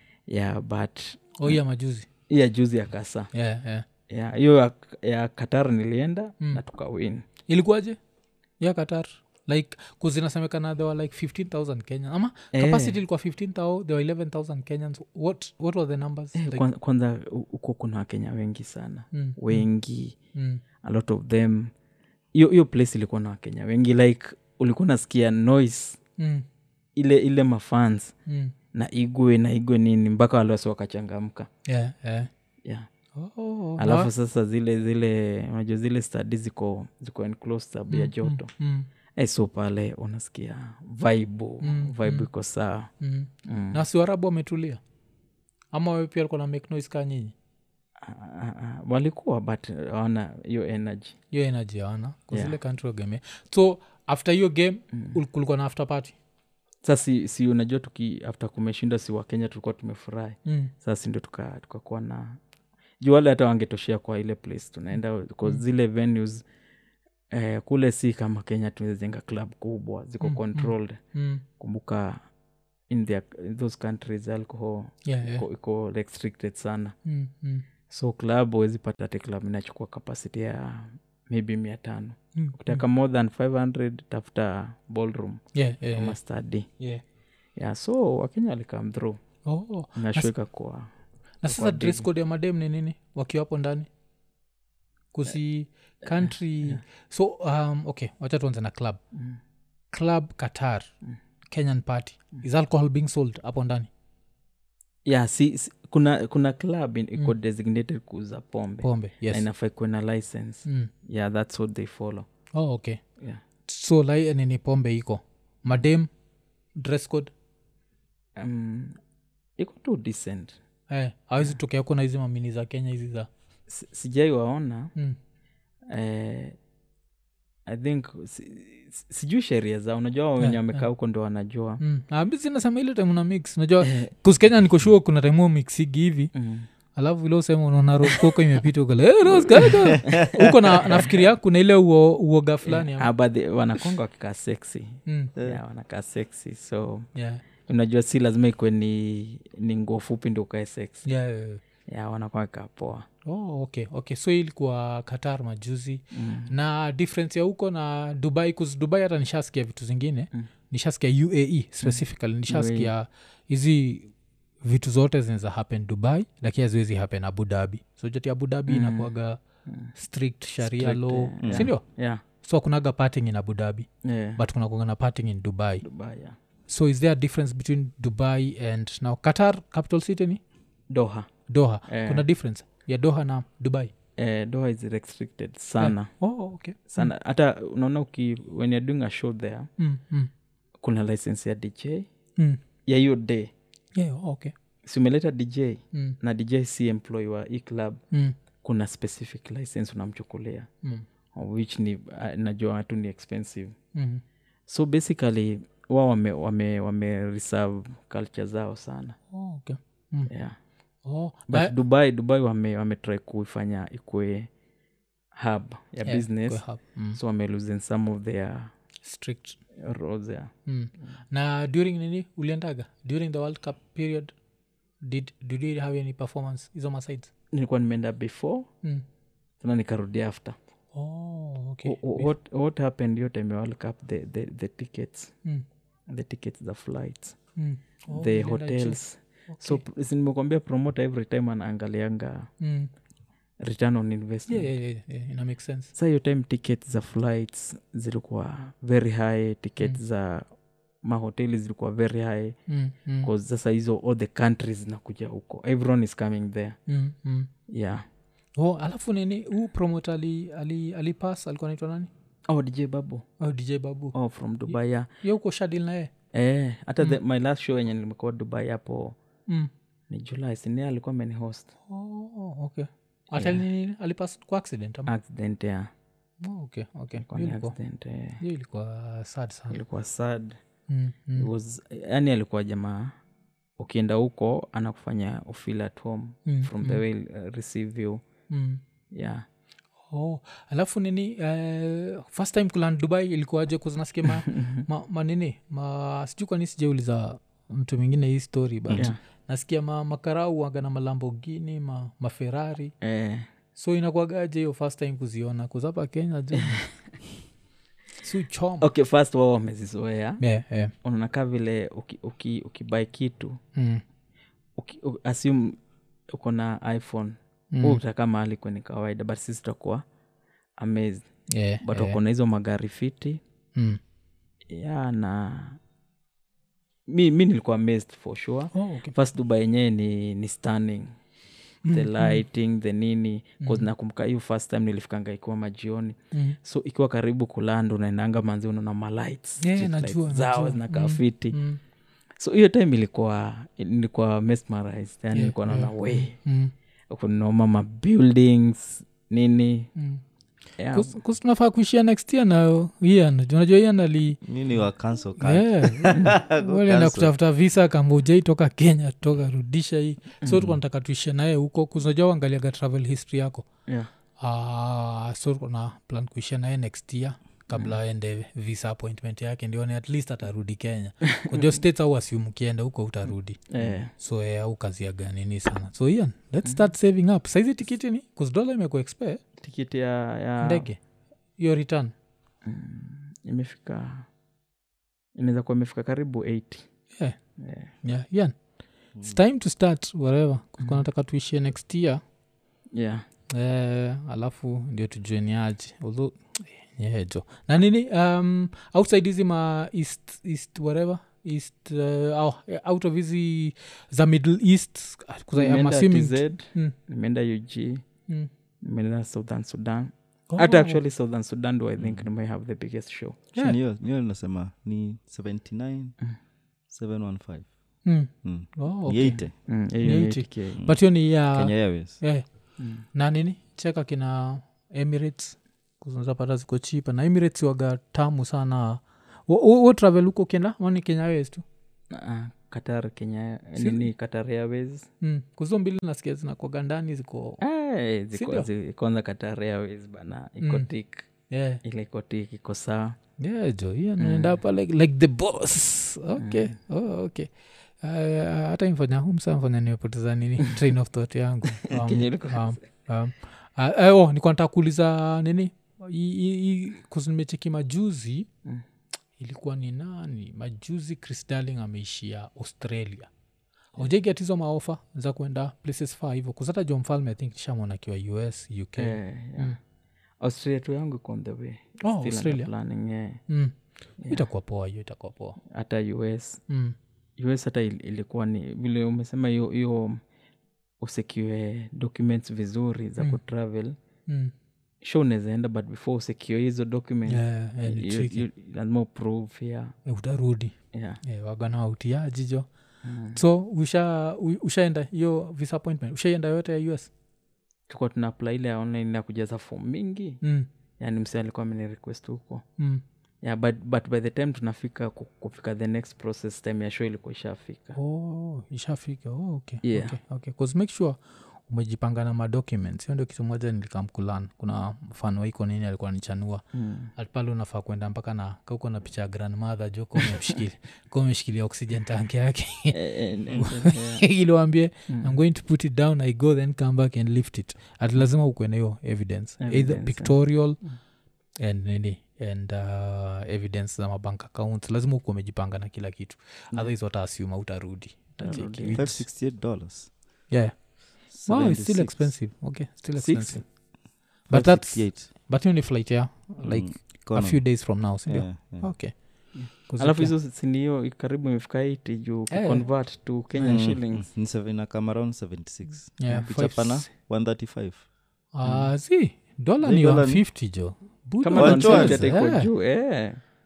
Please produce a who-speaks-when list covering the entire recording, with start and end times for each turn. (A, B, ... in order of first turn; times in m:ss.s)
0:00.3-0:01.6 A
0:01.4-0:02.1 B
0:02.3-0:03.3 A
0:03.3-0:03.8 B
0:04.1-0:07.3 A
0:07.5-0:08.0 B
0:08.6-0:16.6 B
0:12.5-0:13.0 A
0:16.3-0:20.2 A
0:19.1-0:19.6 B
0:20.3-0:20.6 B
0:20.8-0:21.7 A
0:22.3-0:26.0 A
0:26.2-0:26.4 B
0:27.0-0:28.1 A
0:28.3-0:28.5 B
0:28.7-0:31.5 A
0:31.6-0:32.3 B
0:33.2-0:34.1 B
0:33.8-0:38.5 A
0:37.9-0:38.9 B
0:39.2-0:42.9 A
0:41.6-0:42.3 B
0:43.0-0:44.8 B
0:43.4-0:43.8 A
0:45.7-0:47.3 B
0:48.0-0:51.2 A
0:51.3-0:56.2 B
0:52.3-0:52.6 A
0:56.8-1:02.4 A
1:00.4-1:00.7 B
1:03.0-1:06.4 A
1:07.3-1:11.0 A
1:10.2-1:11.4 B
1:11.6-1:12.2 A
1:12.9-1:17.0 A
1:15.0-1:15.4 B
1:17.0-1:17.6 B
1:17.9-1:26.7 A
1:22.4-1:22.8 B
1:25.5-1:26.2 B
1:27.6-1:29.2 A
1:29.4-1:30.3 B
1:30.0-1:30.9 A
1:31.4-1:33.9 B
1:31.4-1:32.1 A
1:35.1-1:39.0 B
1:36.0-1:36.8 A
1:39.1-1:39.4 A
1:39.9-1:40.9 B
1:41.5-1:43.9 B
1:45.0-1:52.3 A
1:48.8-1:49.4 B
1:52.5-1:53.0 B
1:53.7-1:56.1 B
1:56.8-1:57.3 B
1:58.4-1:59.0 A
1:59.6-2:00.6 A
2:00.9-2:03.3 B
2:03.7-2:04.9 A
2:05.9-2:06.6 A
2:07.7-2:11.8 A
2:10.4-2:10.8 B
2:11.8-2:16.3 B
2:13.8-2:14.1 A
2:16.3-2:16.7 A
2:17.0-2:23.1 B
2:18.0-2:18.4 A
2:19.5-2:21.2 A
2:19.9-2:20.3 C
2:22.6-2:27.1 A
2:25.1-2:25.3 B
2:27.2-2:27.4 B
2:27.6-2:31.0 A
2:31.0-2:31.6 B
2:31.9-2:33.1 A
2:33.2-2:44.1 B
2:36.1-2:36.5 A
2:41.8-2:42.9 A
2:44.6-2:49.4 B
2:48.7-2:49.1 A
2:49.6-2:49.9 A
2:50.0-2:51.8 B
2:50.6-2:52.2 A
2:51.4-2:51.7 C
2:52.4-2:55.8 B
2:54.0-2:54.4 A
2:55.8-2:56.4 A
2:56.7-3:00.4 B
3:00.9-3:01.3 A
3:01.5-3:03.9 B
3:01.9-3:02.2 A
3:04.2-3:06.1 A
3:05.8-3:07.1 B
3:06.9-3:09.7 A
3:09.8-3:10.3 B
3:10.8-3:12.1 A
3:12.8-3:13.5 A
3:13.9-3:14.5 B
3:14.8-3:18.0 A
3:18.6-3:20.7 A
3:21.3-3:23.8 A
3:23.9-3:24.2 B
3:24.7-3:29.2 A
3:29.3-3:30.3 B
3:30.3-3:30.6 A
3:31.0-3:31.7 B
3:31.5-3:34.5 A
3:35.3-3:36.6 A
3:36.0-3:37.2 B
3:37.1-3:38.7 A
3:39.0-3:39.6 B
3:39.7-3:41.1 A
3:40.6-3:44.3 B
3:45.0-3:47.3 B
3:47.5-3:48.7 A
3:49.6-3:50.6 A
3:50.9-3:52.3 B
3:51.8-3:55.3 A
3:56.1-3:57.4 A
3:57.6-3:59.0 B
3:58.1-4:02.5 A
3:59.5-3:59.8 B
4:02.6-4:02.9 B
4:03.6-4:04.7 A
4:04.5-4:05.9 B
4:06.0-4:10.5 A
4:11.0-4:12.6 A
4:12.7-4:13.3 B
4:13.2-4:16.8 A
4:16.9-4:17.5 B
4:17.7-4:18.0 A
4:18.6-4:22.1 B
4:22.5-4:23.2 A
4:23.4-4:24.1 B
4:24.1-4:25.1 A
4:25.2-4:26.1 B
4:26.3-4:29.2 A
4:30.1-4:31.7 A
4:31.9-4:35.1 B
4:33.3-4:33.6 A
4:35.1-4:35.9 A
4:36.4-4:37.8 B
4:37.2-4:38.4 A
4:38.4-4:39.8 B
4:39.7-4:40.6 A
4:40.9-4:41.5 B
4:41.4-4:43.2 A
4:43.8-4:48.2 A
4:46.4-4:47.0 B
4:48.5-4:48.8 B
4:49.1-4:49.4 A
4:50.1-5:02.9 B
4:54.2-4:54.8 A
5:03.0-5:03.5 A
5:03.8-5:06.9 B
5:08.2-5:08.9 B
5:08.8-5:10.4 A
5:10.4-5:10.9 B
5:11.0-5:13.6 A
5:13.8-5:14.0 B
5:14.8-5:20.0 A
5:17.7-5:18.0 B
5:20.8-5:21.3 A
5:21.5-5:22.2 B
5:21.8-5:23.4 A
5:24.7-5:25.8 A
5:27.1-5:31.1 A
5:28.7-5:29.1 B
5:31.8-5:32.4 B
5:31.9-5:41.6 A
5:33.6-5:33.9 B
5:39.6-5:41.8 B
5:42.4-5:46.3 A
5:45.3-5:46.7 B
5:47.1-5:49.9 A
5:50.0-5:50.2 B
5:50.8-5:51.2 A
5:50.9-5:54.4 B
5:54.4-5:57.3 C
5:55.4-6:03.6 B
6:00.4-6:00.8 A
6:04.4-6:19.4 B
6:11.2-6:11.7 A
6:13.7-6:14.1 A
6:19.6-6:20.9 A
6:20.6-6:21.0 B
6:21.6-6:22.1 B
6:22.6-6:24.3 A
6:25.3-6:26.8 A
6:27.6-6:27.9 A
6:28.0-6:28.5 B
6:29.2-6:32.2 B
6:32.9-6:33.2 A
6:33.5-6:46.9 B
6:45.5-6:48.0 A
6:48.8-6:53.5 A
6:50.5-6:51.0 B
6:52.0-6:52.2 C
6:53.6-6:56.2 C
6:56.9-6:57.7 C
6:58.0-6:59.4 B
6:58.4-6:59.5 C
6:59.6-7:00.8 A
7:00.0-7:02.4 B
7:01.5-7:02.2 C
7:02.8-7:03.0 A
7:03.1-7:11.6 B
7:12.1-7:15.1 A
7:13.8-7:14.0 B
7:15.2-7:17.6 B
7:17.6-7:21.3 A
7:18.3-7:18.7 B
7:20.6-7:20.9 B
7:21.5-7:21.8 B
7:21.8-7:23.2 A
7:23.4-7:27.5 B
7:24.2-7:24.6 A
7:26.4-7:26.7 A
7:28.0-7:38.5 B
7:31.8-7:32.8 A
7:39.4-7:43.3 B
7:43.9-7:49.8 B
7:49.0-7:49.8 A
7:50.4-7:53.4 A
7:52.0-7:52.7 B
7:53.5-7:53.7 B
7:54.2-7:54.5 A
7:54.3-7:55.6 B
7:55.6-7:56.6 A
7:56.7-7:56.9 B
7:57.4-8:00.2 A
8:01.0-8:04.0 A
8:04.3-8:04.5 B
8:05.0-8:09.9 A
8:07.3-8:08.4 B
8:10.0-8:12.7 B
8:10.9-8:11.2 A
8:13.0-8:13.4 A
8:13.3-8:17.1 B
8:17.9-8:20.4 A
8:20.4-8:20.7 B
8:21.0-8:22.6 A
8:22.8-8:23.0 B
8:23.4-8:28.0 A
8:28.0-8:36.6 B
8:29.8-8:30.2 A
8:36.7-8:37.1 A
8:37.2-8:43.0 B
8:40.2-8:40.6 A
8:42.9-8:44.2 A
8:43.6-8:50.8 B
8:45.1-8:45.4 A
8:49.6-8:50.4 A
8:51.6-8:59.2 B
8:58.4-8:59.0 A
8:58.9-9:00.1 C
9:00.5-9:03.6 B
9:01.3-9:02.3 C
9:03.2-9:03.6 A
9:04.5-9:09.1 B
9:04.5-9:05.3 C
9:06.6-9:07.7 C
9:08.2-9:08.9 C
9:09.5-9:14.3 A
9:09.9-9:10.3 B
9:12.5-9:12.8 B
9:13.6-9:18.0 C
9:16.2-9:17.1 B
9:18.5-9:22.7 B
9:19.8-9:20.4 C
9:21.4-9:23.4 A
9:21.5-9:22.3 C